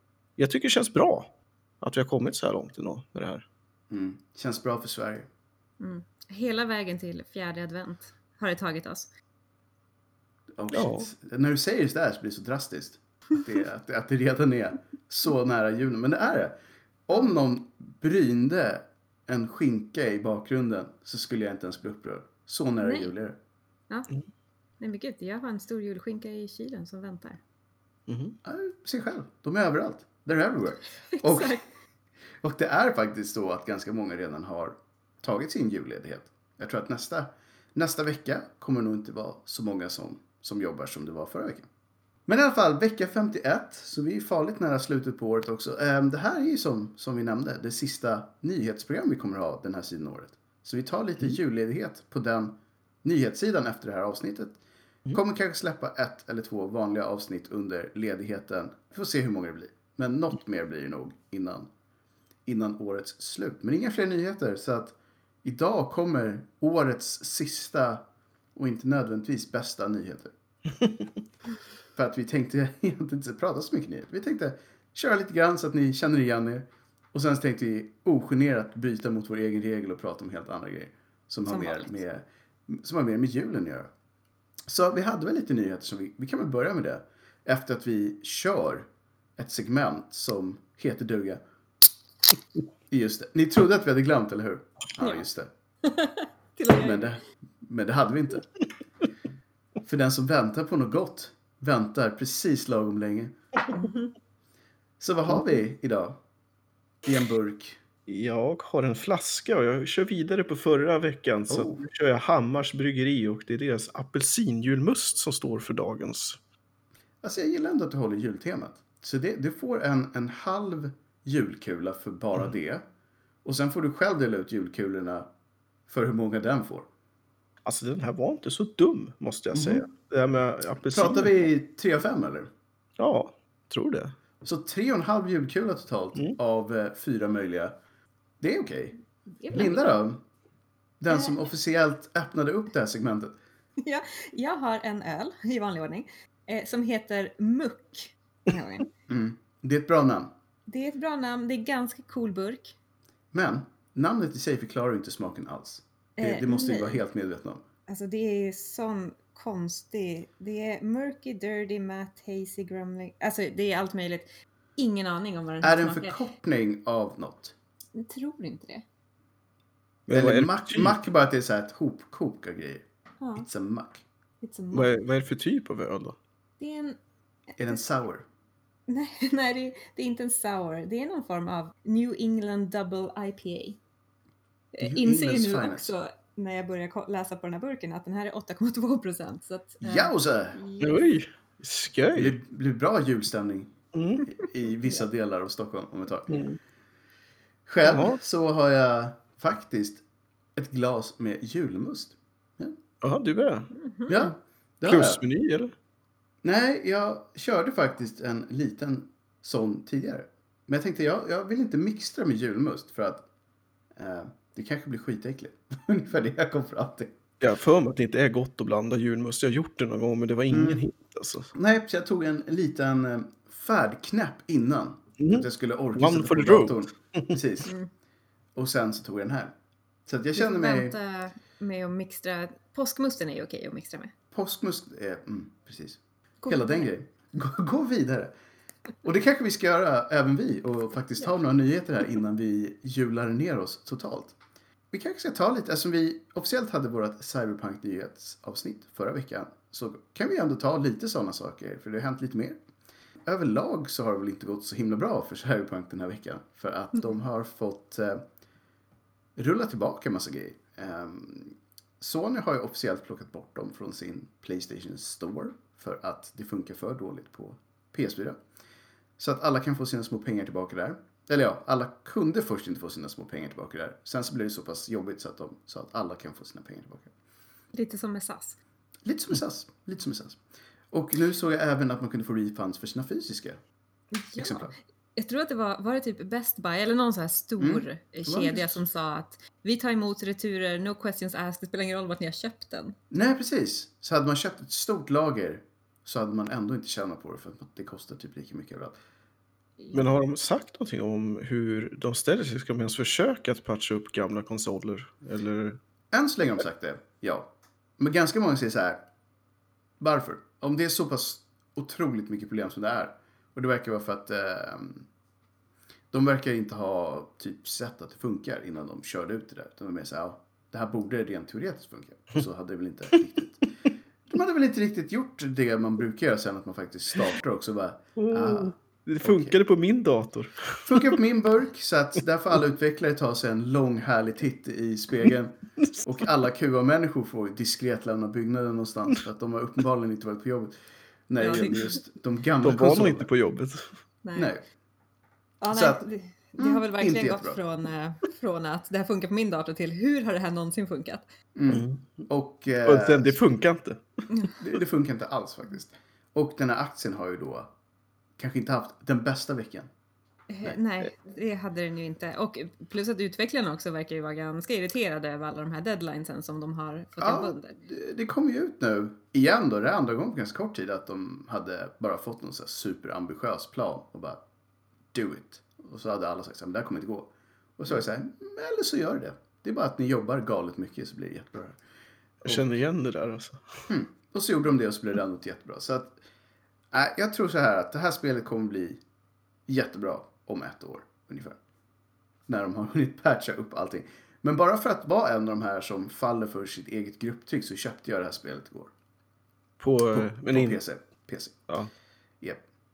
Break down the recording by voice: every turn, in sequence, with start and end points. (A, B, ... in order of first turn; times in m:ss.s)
0:00.4-0:03.4 A
0:03.9-0:05.3 B
0:05.8-0:09.1 C
0:10.6-0:16.6 B
0:10.7-0:11.1 A
0:17.1-0:23.4 B
0:22.8-0:23.1 C
0:24.8-0:27.4 C
0:28.1-0:28.4 A
0:28.4-0:31.6 B
0:31.1-0:31.6 C
0:32.4-0:41.7 B
0:42.3-0:54.6 B
0:55.1-1:01.7 B
1:02.5-1:08.0 B
1:08.6-1:10.3 B
1:11.9-1:23.9 B
1:21.5-1:22.0 C
1:24.7-1:31.4 B
1:32.9-1:35.5 B
1:35.0-1:35.3 C
1:35.8-1:37.2 C
1:36.7-1:38.5 B
1:39.8-1:43.9 B
1:43.7-1:44.1 C
1:45.0-1:46.2 B
1:47.0-1:47.8 B
1:48.1-1:56.4 A
1:51.5-1:51.9 B
1:57.2-2:02.8 B
2:03.4-2:05.3 B
2:05.9-2:06.9 B
2:07.6-2:11.5 A
2:09.5-2:09.8 B
2:10.9-2:12.5 B
2:13.0-2:14.2 A
2:14.4-2:17.7 B
2:18.4-2:19.0 B
2:19.4-2:20.0 C
2:19.5-2:20.2 B
2:21.0-2:23.3 B
2:23.8-2:28.9 C
2:29.1-2:30.3 B
2:30.7-2:32.8 C
2:33.3-2:37.6 B
2:36.2-2:37.0 C
2:37.9-2:46.3 C
2:45.6-2:47.6 B
2:48.0-2:48.8 C
2:50.1-2:52.8 B
2:50.1-2:51.0 A
2:53.2-2:53.5 C
2:53.4-2:54.0 B
2:54.4-2:54.9 C
2:54.7-2:56.2 A
2:56.6-2:57.0 C
2:57.6-2:58.3 B
2:58.9-3:03.8 C
3:04.7-3:11.1 C
3:04.8-3:05.9 B
3:09.8-3:10.6 B
3:10.8-3:12.4 A
3:12.2-3:13.7 B
3:13.9-3:14.3 A
3:14.3-3:16.4 B
3:16.3-3:16.6 A
3:17.7-3:20.0 B
3:17.8-3:18.2 A
3:20.6-3:22.8 B
3:23.0-3:23.7 A
3:23.7-3:24.3 C
3:24.1-3:25.2 B
3:24.9-3:25.7 A
3:26.4-3:33.2 B
3:34.0-3:37.1 B
3:37.4-3:41.5 A
3:40.5-3:40.8 B
3:41.5-3:47.7 B
3:45.2-3:47.4 A
3:48.6-3:49.5 B
3:50.1-3:51.0 B
3:50.3-3:54.1 C
3:54.3-3:58.3 B
3:56.4-3:56.9 C
3:59.0-4:04.4 B
4:04.9-4:12.6 B
4:13.2-4:18.2 B
4:19.4-4:28.4 B
4:29.2-4:37.1 B
4:37.7-4:38.6 C
4:39.0-4:40.4 B
4:40.9-4:43.6 B
4:44.1-4:53.0 C
4:44.4-4:44.7 B
4:47.6-4:48.8 B
4:53.1-4:59.0 B
4:59.8-5:00.1 C
4:59.9-5:05.8 A
5:06.1-5:09.0 B
5:10.0-5:15.1 B
5:16.1-5:23.7 B
5:24.3-5:29.6 B
5:28.2-5:31.2 A
5:30.9-5:40.7 B
5:41.3-5:43.3 B
5:41.4-5:42.0 C
5:42.6-5:43.9 A
5:44.2-5:44.5 C
5:44.4-5:44.6 B
5:45.6-5:51.3 C
5:45.7-5:46.0 B
5:46.6-5:47.6 B
5:51.6-5:53.4 B
5:51.7-5:52.2 A
5:52.8-5:54.0 A
5:54.6-5:57.7 B
5:58.4-5:59.9 B
6:00.5-6:07.8 C
6:07.2-6:14.4 B
6:15.1-6:21.8 B
6:22.4-6:23.9 A
6:23.9-6:26.2 B
6:26.9-6:29.0 B
6:29.7-6:31.6 B
6:32.5-6:38.9 B
6:39.8-6:40.8 A
6:40.1-6:41.7 B